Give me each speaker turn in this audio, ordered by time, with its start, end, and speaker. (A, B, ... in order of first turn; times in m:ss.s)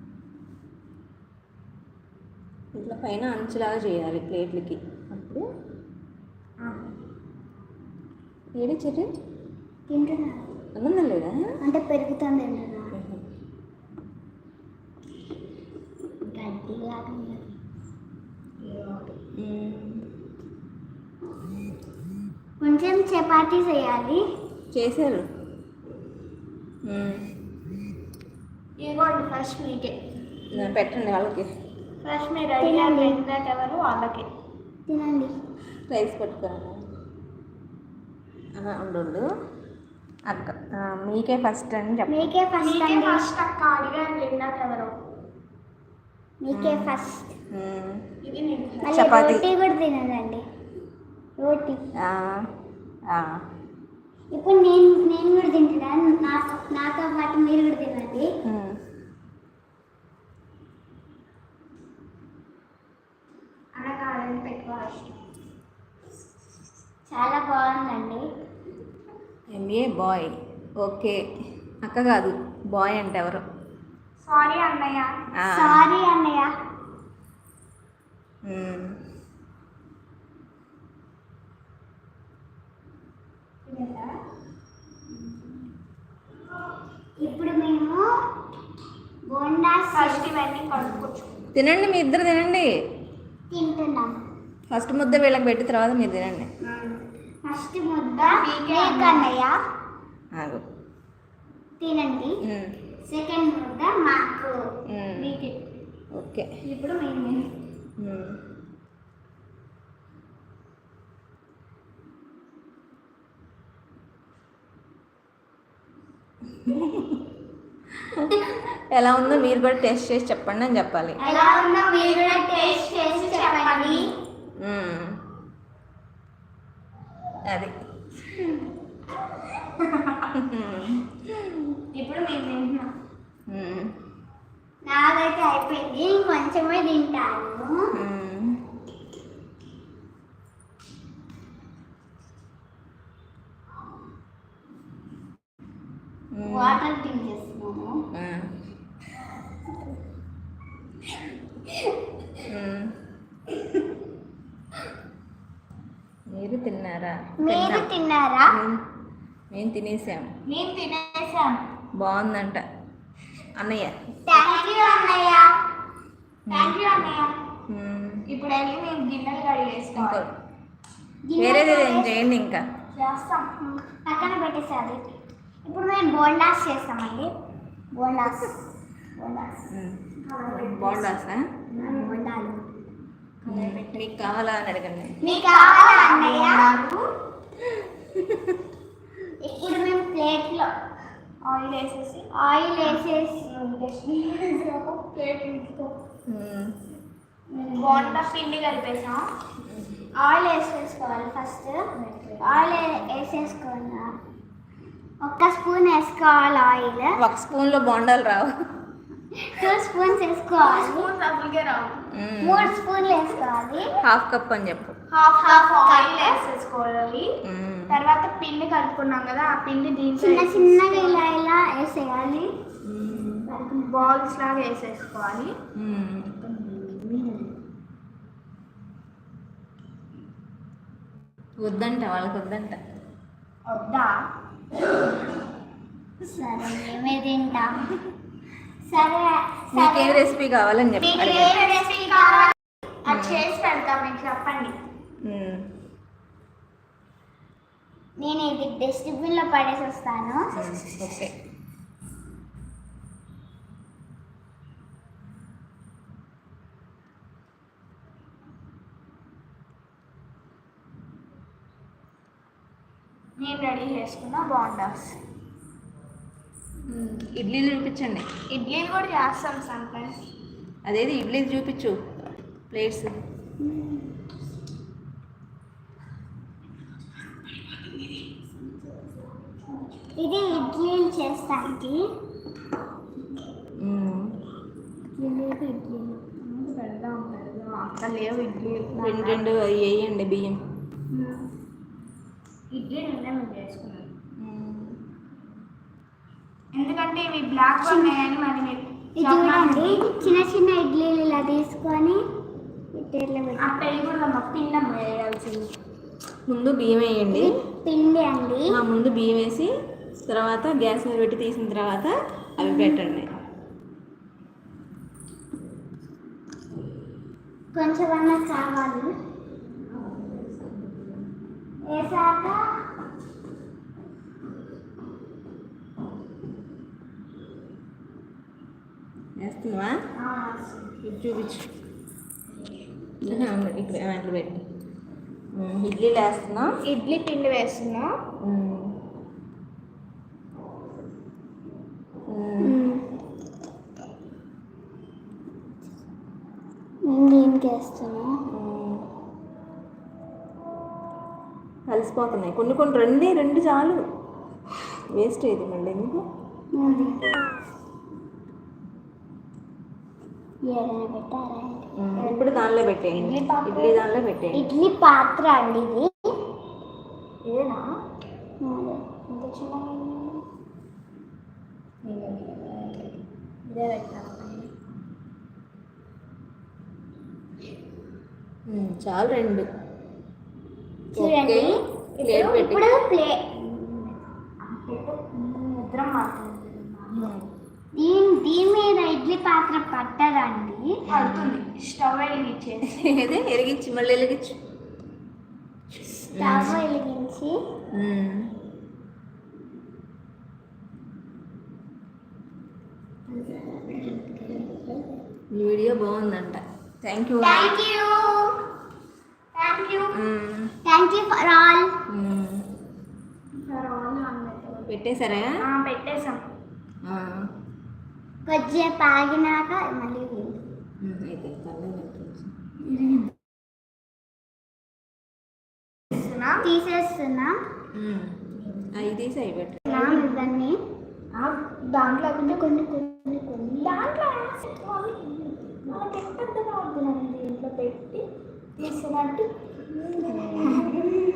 0:02.8-0:05.5 A
0:06.6-0:06.9 B
0:08.6-0:09.1 A
0:09.9-0:10.5 C
0:10.8-0:11.4 A
0:11.6-0:13.0 C
0:12.9-0:13.2 A
0:16.2-0:17.6 C
0:18.6-0:19.0 B
0:19.4-0:20.1 A
0:22.6-0:24.2 C
0:24.7-0:25.3 A
0:26.8-0:27.4 A
0:28.8-0:30.0 B
0:30.5-0:31.5 A
0:32.0-0:34.3 B
0:32.6-0:33.2 C
0:34.9-0:35.3 C
0:35.9-0:36.8 A
0:38.6-0:39.2 A
0:40.3-0:42.3 A
0:42.1-0:43.3 C
0:42.6-0:44.9 B
0:46.4-0:47.4 C
0:46.5-0:46.9 A
0:47.5-0:48.1 A
0:48.2-0:49.0 B
0:48.8-0:50.4 C
0:48.9-0:49.5 A
0:51.4-0:51.8 C
0:52.0-0:52.5 A
0:53.1-0:53.4 A
0:54.3-0:58.3 C
0:58.4-0:58.8 A
1:03.8-1:05.1 B
1:07.1-1:08.2 C
1:09.5-1:11.2 A
1:11.8-1:13.4 A
1:14.2-1:15.1 B
1:15.4-1:15.9 A
1:15.5-1:16.5 C
1:18.4-1:19.0 A
1:23.7-1:24.1 B
1:27.2-1:28.1 C
1:29.3-1:30.3 C
1:29.9-1:31.4 B
1:31.5-1:32.7 A
1:33.5-1:34.2 C
1:34.7-1:36.5 A
1:36.7-1:37.0 B
1:37.4-1:39.6 C
1:38.2-1:39.3 B
1:40.3-1:40.6 A
1:41.8-1:42.4 C
1:42.4-1:42.8 A
1:43.0-1:44.6 C
1:44.9-1:45.4 A
1:46.1-1:46.5 A
1:46.6-1:47.5 B
1:48.0-1:48.4 A
1:56.6-1:57.2 A
1:58.0-2:01.2 A
2:01.2-2:04.1 B
2:01.2-2:04.1 C
2:04.6-2:05.2 A
2:07.5-2:07.7 A
2:09.8-2:10.3 B
2:10.3-2:11.8 A
2:11.9-2:12.9 B
2:13.5-2:14.0 A
2:14.8-2:17.9 C
2:17.9-2:18.6 A
2:26.3-2:26.8 A
2:26.4-2:28.0 C
2:28.1-2:28.5 A
2:32.4-2:33.0 A
2:36.3-2:37.9 A
2:37.4-2:38.6 C
2:38.5-2:38.8 A
2:39.5-2:40.3 A
2:40.5-2:41.6 B
2:42.0-2:42.6 A
2:43.6-2:44.0 A
2:44.3-2:45.5 C
2:46.5-2:46.8 A
2:46.5-2:47.3 B
2:47.7-2:48.2 A
2:48.3-2:50.2 B
2:50.0-2:50.3 A
2:51.3-2:52.3 C
2:51.4-2:52.7 A
2:52.9-2:53.5 B
2:53.6-2:55.0 C
2:55.6-2:57.3 C
2:57.9-2:58.6 C
2:59.2-2:59.6 C
2:59.7-3:01.6 A
3:00.2-3:01.2 B
3:01.7-3:02.3 B
3:01.8-3:02.6 C
3:03.4-3:04.1 B
3:03.5-3:05.2 A
3:05.2-3:07.0 B
3:05.2-3:06.7 C
3:07.7-3:08.6 A
3:09.4-3:10.7 C
3:11.4-3:12.3 B
3:12.3-3:13.5 C
3:12.8-3:16.0 B
3:16.3-3:16.8 A
3:17.5-3:18.3 C
3:17.8-3:19.3 B
3:20.2-3:21.9 C
3:21.9-3:22.8 B
3:22.4-3:24.1 C
3:25.2-3:27.2 C
3:27.2-3:28.6 A
3:29.3-3:31.1 C
3:30.6-3:32.0 B
3:32.1-3:32.8 A
3:32.4-3:33.9 C
3:34.0-3:35.0 A
3:35.1-3:37.4 B
3:35.4-3:36.4 C
3:37.4-3:38.0 A
3:37.9-3:41.2 B
3:40.2-3:42.5 C
3:42.8-3:43.5 A
3:43.2-3:44.1 C
3:43.9-3:45.6 B
3:45.8-3:46.4 A
3:46.5-3:47.4 C
3:51.6-3:52.8 A
3:53.7-3:54.1 B
3:56.2-3:57.9 C
3:58.8-4:00.3 C
3:59.7-4:01.6 A
4:01.0-4:04.8 B
4:01.0-4:02.6 C
4:03.1-4:03.5 A
4:05.2-4:05.7 A
4:08.2-4:10.6 C
4:10.5-4:11.3 A
4:23.4-4:25.2 B
4:26.9-4:28.3 A
4:28.5-4:30.1 B
4:30.9-4:32.0 A
4:32.7-4:33.1 A
4:33.6-4:34.1 C
4:37.6-4:38.4 B
4:40.2-4:42.0 C
4:43.8-4:44.4 A
4:45.2-4:46.2 C
4:46.1-4:49.4 B
4:48.9-4:50.6 A
4:52.7-4:54.1 B
4:54.4-4:55.0 A
4:56.8-5:00.4 B
4:57.8-4:58.2 C
4:59.2-5:02.2 C
5:02.9-5:03.8 C
5:03.6-5:05.7 B
5:06.5-5:07.5 A
5:07.3-5:08.8 C
5:08.7-5:09.7 A
5:10.3-5:13.3 A
5:17.7-5:19.1 C
5:20.2-5:21.2 A
5:21.8-5:22.6 C
5:29.4-5:30.0 A
5:30.2-5:30.6 B
5:31.0-5:31.7 A
5:33.2-5:34.6 A
5:35.5-5:36.8 A
5:36.9-5:38.1 B
5:38.4-5:39.0 A
5:42.3-5:42.8 A
5:42.6-5:43.0 C
5:47.1-5:48.3 C
5:48.5-5:49.1 A
5:51.9-5:54.0 A
5:55.1-5:56.2 A
5:56.7-5:57.3 C
5:56.8-5:57.2 B
6:00.6-6:01.9 C
6:02.0-6:04.7 A
6:02.2-6:02.6 B
6:03.1-6:04.1 B
6:04.5-6:06.1 C
6:07.4-6:07.8 B
6:08.6-6:10.4 C
6:12.0-6:13.0 B
6:13.7-6:14.7 B
6:18.7-6:19.7 A
6:21.2-6:24.2 C
6:21.2-6:23.0 A
6:22.2-6:22.7 B
6:24.6-6:27.3 B
6:27.2-6:27.4 A
6:28.0-6:31.0 C
6:31.1-6:31.6 A
6:31.1-6:33.2 B
6:32.9-6:34.6 A
6:36.3-6:36.8 A
6:36.4-6:37.6 C
6:37.9-6:38.6 A
6:43.3-6:45.1 C
6:45.5-6:47.8 A
6:47.4-6:48.6 C
6:49.6-6:50.2 C
6:50.1-6:50.8 A
6:50.8-6:52.0 C
6:52.1-6:52.7 A
6:53.6-6:54.9 B
6:54.9-6:55.6 A
6:55.6-6:56.4 B
6:57.0-6:57.5 A
6:58.5-7:00.6 C
7:01.0-7:02.5 A
7:06.1-7:06.7 B
7:06.6-7:07.6 C
7:07.9-7:09.9 A
7:09.9-7:10.8 C
7:09.9-7:10.4 B
7:11.4-7:12.7 B
7:12.4-7:14.0 C
7:13.8-7:18.2 B
7:18.8-7:21.2 B
7:20.2-7:21.0 C